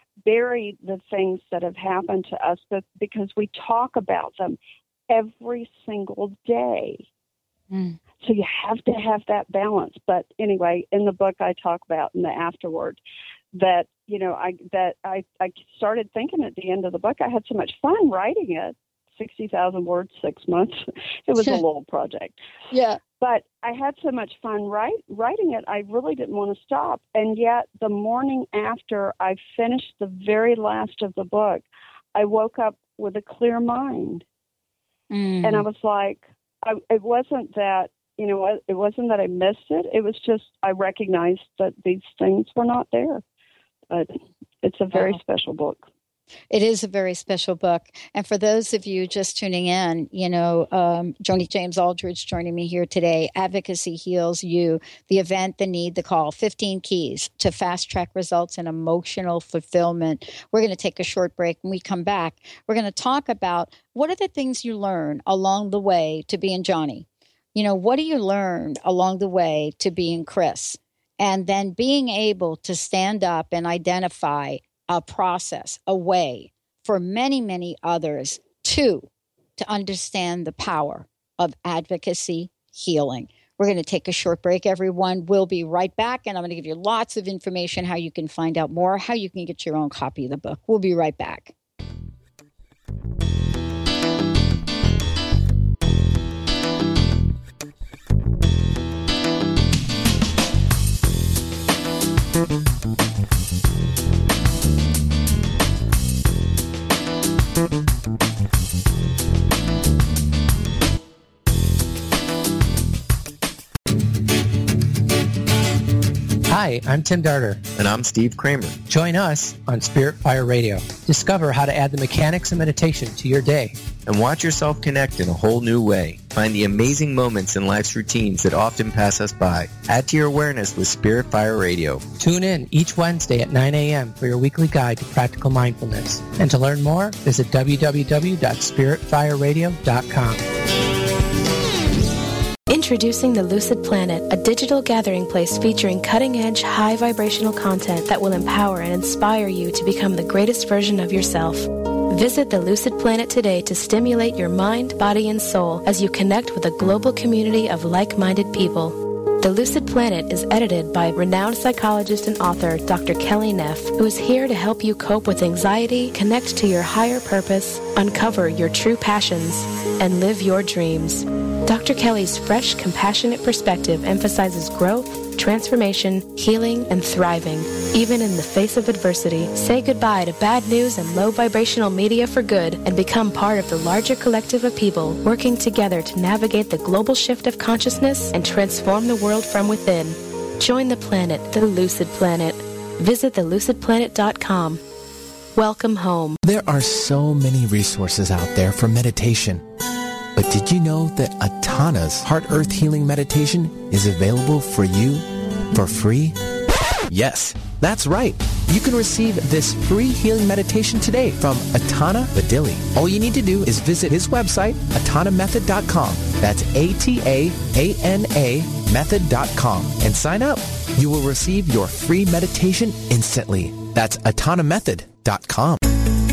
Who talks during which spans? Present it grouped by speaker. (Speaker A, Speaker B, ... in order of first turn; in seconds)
Speaker A: 0.2-4.6, 5.1-7.1, 8.2-13.0, 13.5-22.4, 23.2-34.2, 35.4-43.2, 43.9-45.8
Speaker B: 7.7-8.0, 21.4-21.6, 22.7-23.0, 35.1-35.6, 44.9-45.2, 46.5-91.5
Speaker C: 116.5-117.6, 118.8-123.8, 132.2-140.4
Speaker D: 117.8-118.9, 124.0-132.2
Speaker E: 142.7-194.8, 195.6-196.4
Speaker F: 196.4-199.6, 200.3-206.3, 207.1-225.8